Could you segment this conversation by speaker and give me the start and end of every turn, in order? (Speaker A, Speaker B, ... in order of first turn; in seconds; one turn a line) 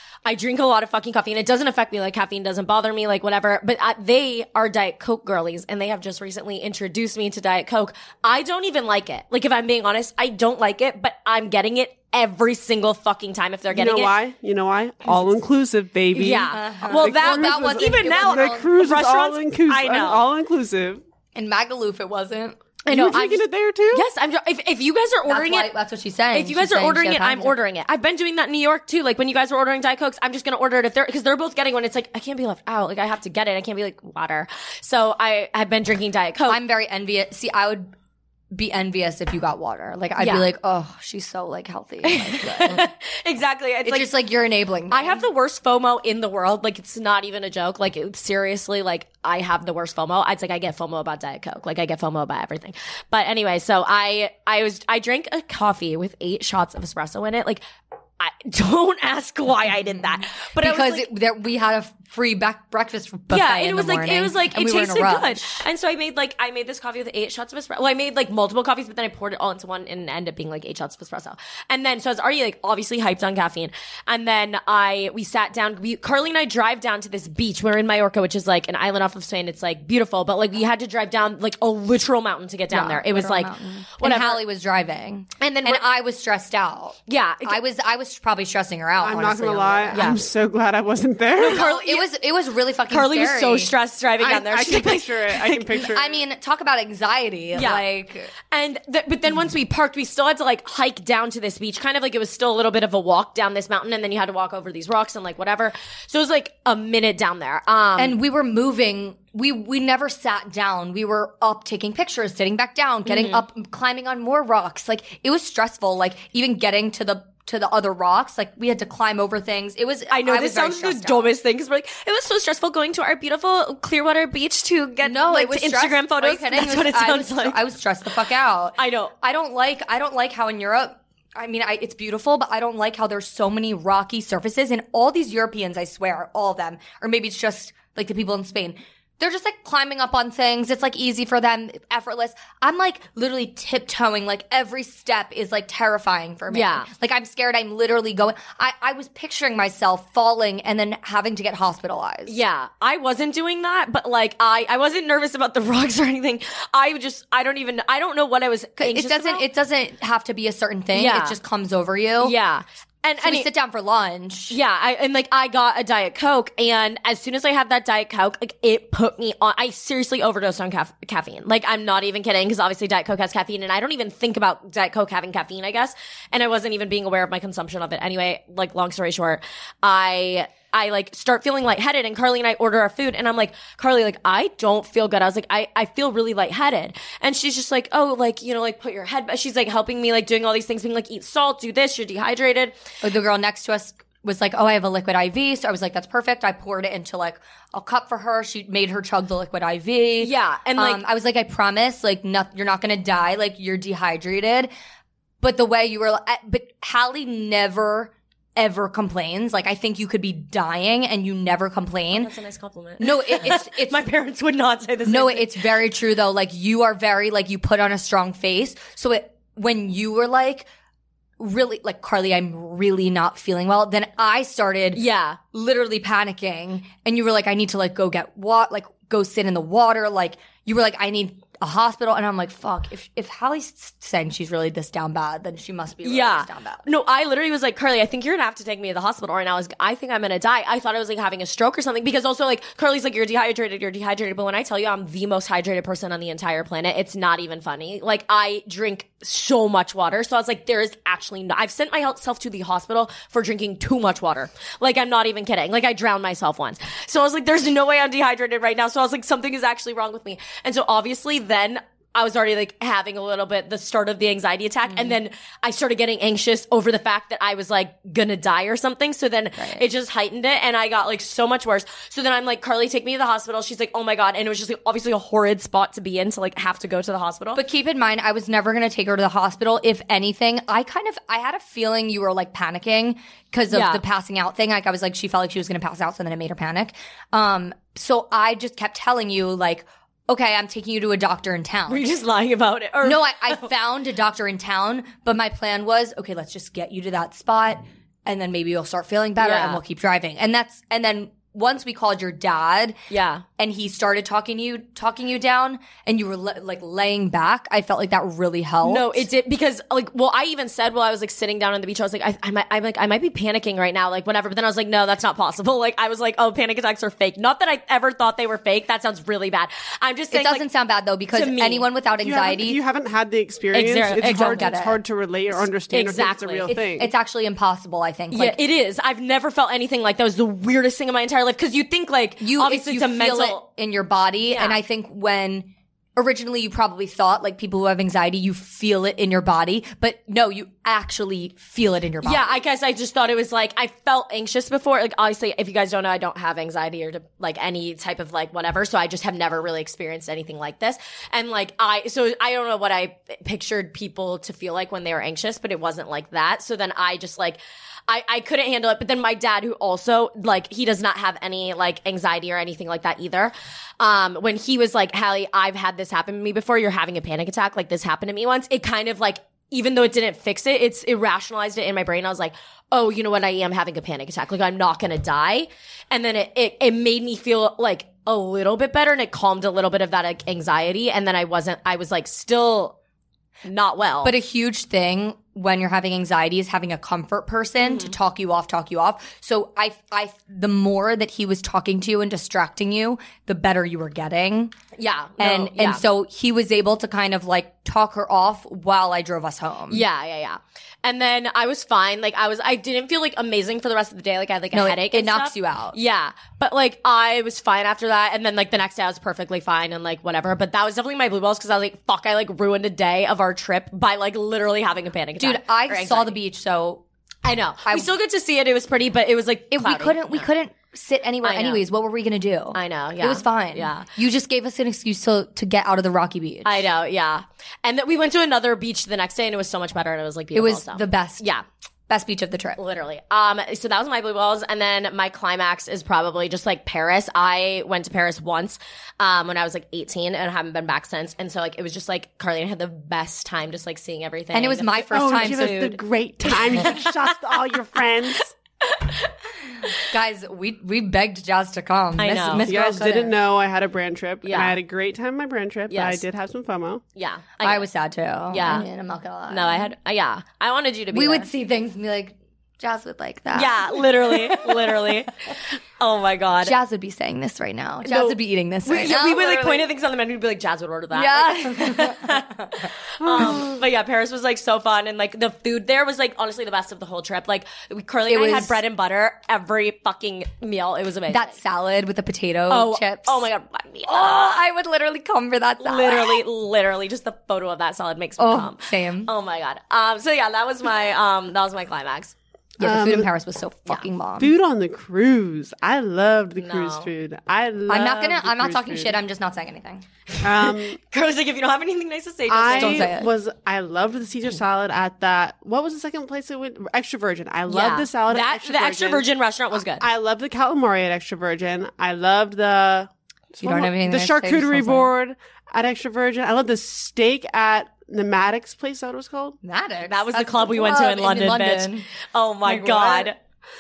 Speaker A: 0.2-14.1
Speaker B: 13.7-21.0
Speaker A: 16.1-20.2
Speaker C: 16.5-18.7
Speaker C: 21.4-22.6
Speaker A: 22.9-25.7
Speaker B: 22.9-24.1
Speaker C: 25.3-27.6
Speaker A: 26.3-36.6
Speaker C: 36.5-37.9
Speaker C: 38.5-42.9
Speaker A: 40.2-40.5
Speaker A: 42.0-44.1
Speaker C: 43.8-45.3
Speaker A: 44.9-57.6
Speaker A: 58.2-61.1
Speaker C: 60.6-65.6
Speaker A: 63.3-84.4
Speaker C: 82.7-90.2
Speaker A: 85.4-85.8
Speaker A: 87.1-87.6
Speaker B: 89.0-91.7
Speaker A: 89.9-90.2
Speaker A: 91.4-92.1
Speaker C: 91.4-93.7
Speaker A: 92.9-95.7
Speaker B: 94.2-96.2
Speaker C: 95.8-98.3
Speaker A: 97.5-97.8
Speaker A: 98.5-108.2
Speaker C: 108.0-121.3
Speaker A: 113.1-113.5
Speaker A: 120.1-127.6
Speaker C: 125.0-152.4
Speaker A: 128.8-129.1
Speaker A: 146.5-146.9
Speaker A: 152.3-159.5
Speaker C: 158.8-162.3
Speaker A: 160.9-161.4
Speaker A: 162.2-163.5
Speaker C: 163.2-164.6
Speaker A: 164.5-192.8
Speaker C: 193.0-204.7
Speaker A: 200.2-201.0
Speaker C: 205.4-212.3
Speaker A: 212.1-215.7
Speaker C: 213.0-214.0
Speaker C: 215.1-220.7
Speaker C: 221.4-236.8
Speaker A: 224.9-225.4
Speaker A: 236.0-277.6
Speaker C: 264.9-265.2
Speaker C: 269.6-269.9
Speaker C: 277.6-292.1
Speaker A: 283.7-284.0
Speaker A: 291.9-293.7
Speaker C: 293.0-303.0
Speaker A: 299.4-299.8
Speaker A: 303.1-303.4
Speaker C: 303.6-309.3
Speaker A: 308.8-320.6
Speaker C: 320.3-322.8
Speaker A: 321.3-321.9
Speaker B: 322.1-327.1
Speaker A: 323.7-324.7
Speaker C: 324.2-325.0
Speaker A: 325.9-326.7
Speaker C: 326.7-328.6
Speaker A: 328.3-333.6
Speaker C: 332.4-342.5
Speaker A: 334.5-334.8
Speaker A: 342.2-383.0
Speaker A: 383.6-384.4
Speaker C: 384.2-394.7
Speaker A: 387.8-388.1
Speaker A: 395.0-396.0
Speaker C: 395.4-400.0
Speaker A: 399.9-416.4
Speaker C: 404.7-406.0
Speaker C: 415.4-417.0
Speaker A: 417.4-420.5
Speaker C: 419.7-426.9
Speaker A: 421.4-421.9
Speaker A: 422.7-424.1
Speaker A: 426.6-431.6
Speaker C: 430.6-431.5
Speaker C: 432.1-432.8
Speaker A: 432.8-445.8
Speaker C: 444.5-446.0
Speaker B: 445.1-448.6
Speaker A: 446.6-447.1
Speaker A: 448.9-449.2
Speaker C: 450.0-453.4
Speaker A: 452.2-452.7
Speaker B: 452.6-457.0
Speaker A: 454.4-454.8
Speaker A: 455.9-456.2
Speaker A: 457.1-457.9
Speaker C: 457.6-459.9
Speaker A: 458.5-458.9
Speaker A: 459.5-461.5
Speaker C: 461.1-465.2
Speaker A: 463.5-466.8
Speaker C: 466.6-469.9
Speaker A: 468.0-481.6
Speaker C: 471.1-473.6
Speaker B: 473.2-473.8
Speaker C: 478.3-478.8
Speaker C: 481.3-483.5
Speaker A: 482.7-484.6
Speaker C: 484.1-486.4
Speaker A: 485.8-492.3
Speaker C: 488.4-489.3
Speaker C: 492.8-494.5
Speaker B: 492.8-493.3
Speaker B: 494.4-499.2
Speaker A: 496.6-497.1
Speaker C: 497.9-500.1
Speaker A: 500.4-503.2
Speaker B: 500.4-501.0
Speaker B: 502.5-509.3
Speaker C: 502.8-503.3
Speaker A: 507.7-510.1
Speaker B: 509.9-519.6
Speaker C: 513.6-515.1
Speaker C: 519.6-522.1
Speaker A: 520.1-523.4
Speaker B: 522.7-523.3